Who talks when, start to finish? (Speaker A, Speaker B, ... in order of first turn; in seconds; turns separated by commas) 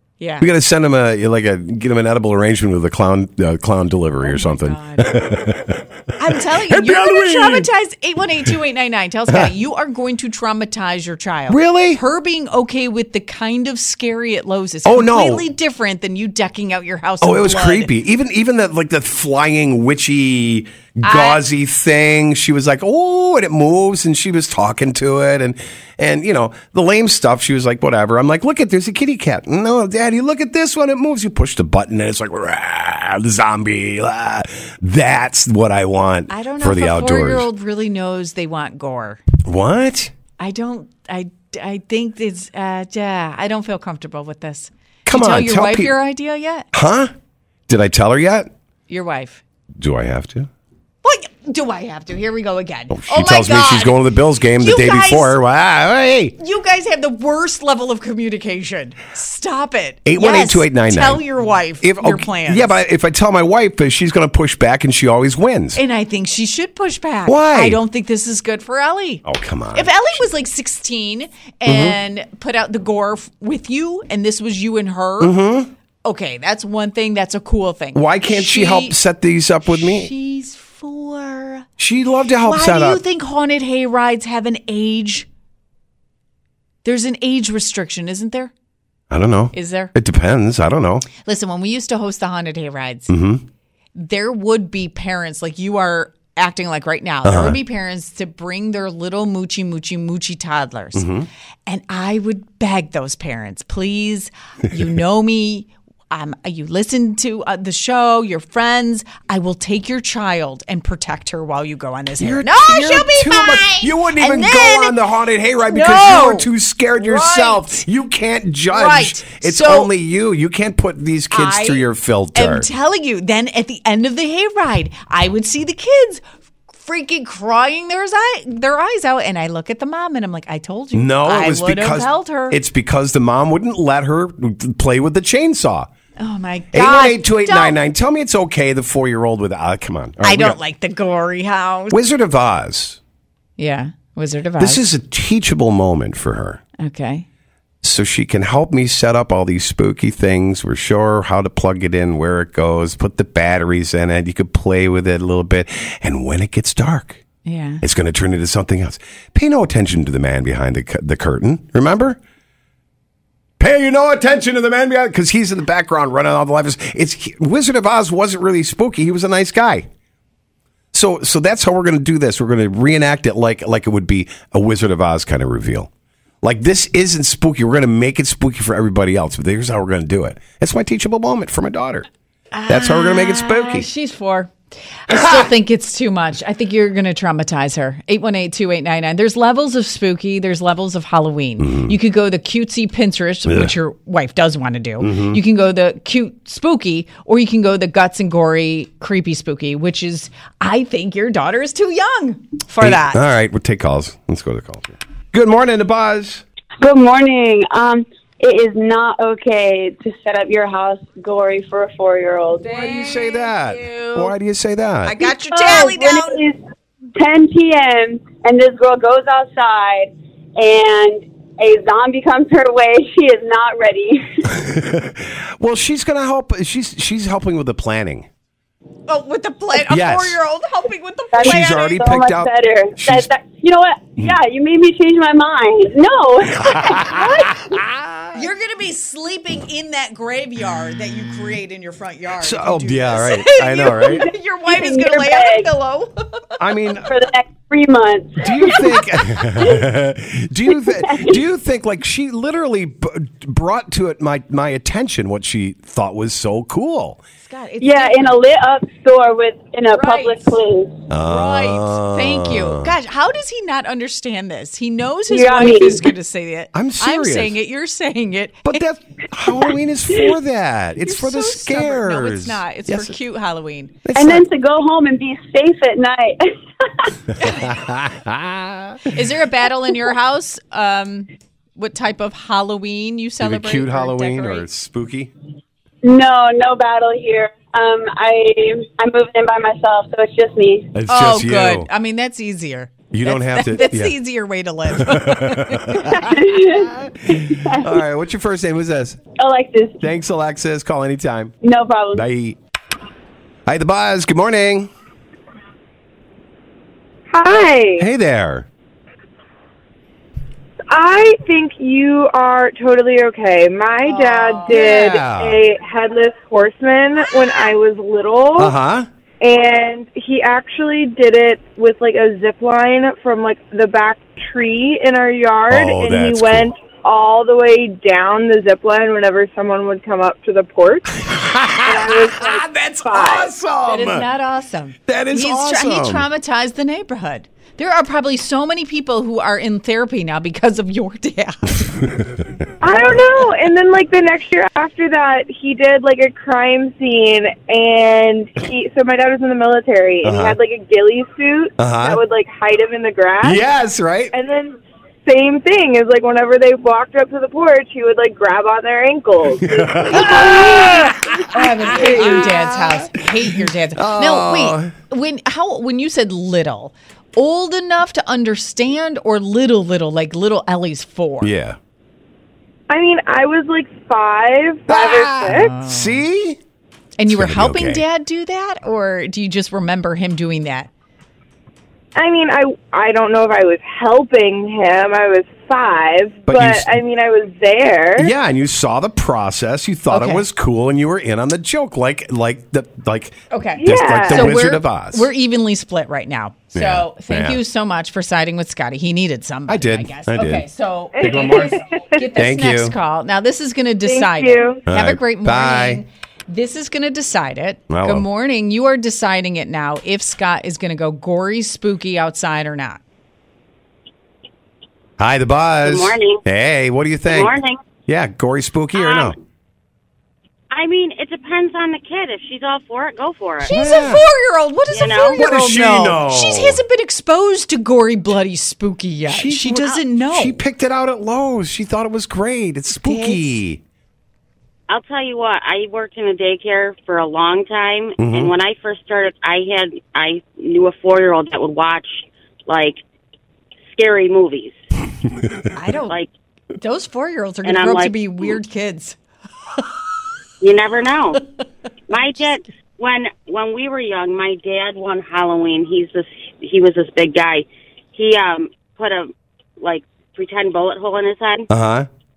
Speaker A: 0.2-0.5, Speaker B: 0.4-7.7, Speaker A: 4.2-5.2, Speaker A: 6.2-17.9, Speaker B: 11.5-12.0, Speaker B: 14.8-15.4, Speaker B: 17.2-37.5, Speaker A: 21.0-21.4, Speaker A: 36.3-39.2, Speaker B: 39.4-40.1, Speaker A: 40.4-46.7, Speaker B: 45.0-45.9, Speaker B: 46.7-47.1, Speaker B: 47.7-48.5, Speaker A: 48.9-49.4, Speaker B: 49.8-50.5, Speaker A: 51.0-54.0, Speaker B: 52.9-56.4, Speaker A: 54.6-55.4, Speaker A: 56.4-62.8, Speaker B: 60.0-61.2, Speaker B: 61.8-65.8, Speaker A: 65.7-75.3, Speaker B: 67.3-67.8, Speaker B: 69.2-69.9, Speaker B: 71.7-72.0, Speaker B: 75.2-75.7, Speaker A: 76.0-79.0, Speaker B: 77.9-80.1, Speaker A: 79.7-81.7, Speaker B: 81.8-83.0, Speaker A: 82.4-85.3, Speaker A: 86.8-88.5, Speaker B: 89.1-91.0, Speaker A: 89.5-89.9, Speaker A: 91.2-93.1, Speaker B: 93.1-93.4, Speaker A: 94.0-101.1, Speaker B: 97.2-97.6, Speaker B: 100.9-101.3, Speaker A: 101.7-115.0, Speaker B: 112.2-122.7, Speaker A: 115.7-117.8, Speaker A: 118.7-119.9, Speaker A: 121.3-126.2, Speaker A: 126.7-132.6, Speaker B: 130.9-135.9, Speaker A: 136.2-137.8, Speaker B: 136.7-140.6, Speaker A: 140.2-142.0, Speaker B: 141.9-143.0, Speaker A: 143.6-144.8, Speaker B: 144.6-146.6, Speaker A: 146.8-147.2, Speaker B: 147.8-157.2, Speaker A: 157.4-157.8, Speaker B: 157.8-162.2, Speaker B: 163.6-169.9, Speaker B: 170.9-175.9, Speaker B: 176.4-182.1, Speaker A: 182.5-184.5, Speaker B: 182.7-183.9, Speaker A: 185.1-203.2, Speaker B: 185.1-185.4, Speaker B: 191.6-191.9, Speaker B: 193.4-193.7, Speaker B: 195.0-195.4, Speaker B: 202.8-206.4, Speaker C: 206.8-212.7, Speaker A: 212.6-214.3, Speaker B: 212.7-215.2, Speaker A: 215.0-216.4, Speaker C: 215.5-216.6, Speaker C: 217.2-224.5, Speaker B: 224.5-228.3, Speaker A: 229.1-232.1, Speaker B: 229.7-230.4, Speaker C: 231.3-237.1, Speaker B: 231.4-233.3, Speaker B: 236.6-238.4, Speaker A: 238.3-246.4, Speaker B: 242.4-244.3, Speaker C: 244.7-245.7, Speaker B: 246.6-247.1, Speaker C: 247.1-248.6, Speaker B: 248.4-257.2, Speaker A: 248.6-249.5, Speaker A: 257.4-258.4, Speaker C: 257.8-261.0, Speaker A: 259.9-260.6, Speaker B: 261.1-262.9, Speaker A: 261.2-268.8, Speaker C: 265.3-266.0, Speaker B: 266.7-267.6, Speaker B: 268.6-273.1, Speaker A: 271.0-273.9, Speaker B: 274.0-274.4, Speaker C: 274.1-276.5, Speaker B: 277.4-279.0, Speaker A: 277.4-277.7, Speaker A: 279.1-284.7, Speaker B: 283.4-285.3, Speaker C: 286.0-290.9, Speaker B: 290.9-291.9, Speaker A: 291.1-296.3, Speaker B: 293.1-294.1, Speaker B: 294.9-299.2, Speaker C: 296.2-297.9, Speaker C: 299.4-300.0, Speaker B: 300.0-301.5, Speaker C: 301.6-302.2, Speaker B: 302.1-302.6, Speaker B: 303.6-304.9, Speaker D: 307.3-308.1, Speaker B: 308.0-308.7, Speaker D: 310.9-318.7, Speaker A: 314.0-314.8, Speaker B: 314.7-315.6, Speaker B: 318.6-319.1, Speaker D: 319.4-331.1, Speaker B: 325.7-326.7, Speaker B: 331.2-334.3, Speaker D: 331.8-333.5, Speaker A: 333.9-341.9, Speaker B: 335.1-336.2, Speaker B: 342.0-342.5, Speaker D: 342.8-353.6, Speaker B: 350.2-350.6, Speaker B: 351.8-352.2, Speaker B: 353.4-354.3, Speaker D: 354.3-362.4, Speaker B: 359.6-363.2, Speaker A: 360.1-371.5, Speaker B: 363.9-364.9, Speaker B: 371.4-371.8, Speaker D: 372.9-375.7, Speaker B: 374.9-376.6, Speaker A: 375.4-376.2, Speaker A: 377.2-380.9, Speaker B: 377.3-378.0, Speaker D: 382.1-388.3, Speaker B: 386.4-386.9, Speaker B: 388.2-395.3, Speaker A: 390.1-390.4, Speaker A: 393.5-413.0, Speaker D: 393.8-394.6, Speaker B: 396.7-397.6, Speaker B: 399.7-400.7, Speaker D: 401.2-402.0, Speaker B: 401.2-401.8, Speaker B: 402.3-402.9, Speaker D: 404.0-404.8, Speaker B: 404.9-406.0, Speaker B: 407.9-408.3, Speaker B: 415.2-419.4, Speaker E: 415.8-416.4, Speaker E: 417.3-417.8, Speaker E: 418.9-419.3, Speaker E: 420.7-423.8, Speaker A: 423.6-430.6, Speaker B: 423.7-424.2, Speaker E: 424.9-425.4, Speaker B: 425.4-426.8, Speaker B: 429.3-433.8, Speaker A: 432.9-433.6, Speaker E: 434.9-443.0, Speaker B: 438.2-438.5, Speaker E: 443.9-444.8, Speaker A: 445.7-446.1, Speaker A: 446.8-449.2, Speaker E: 447.6-448.1, Speaker E: 450.6-451.4, Speaker E: 452.1-461.7, Speaker B: 461.7-462.1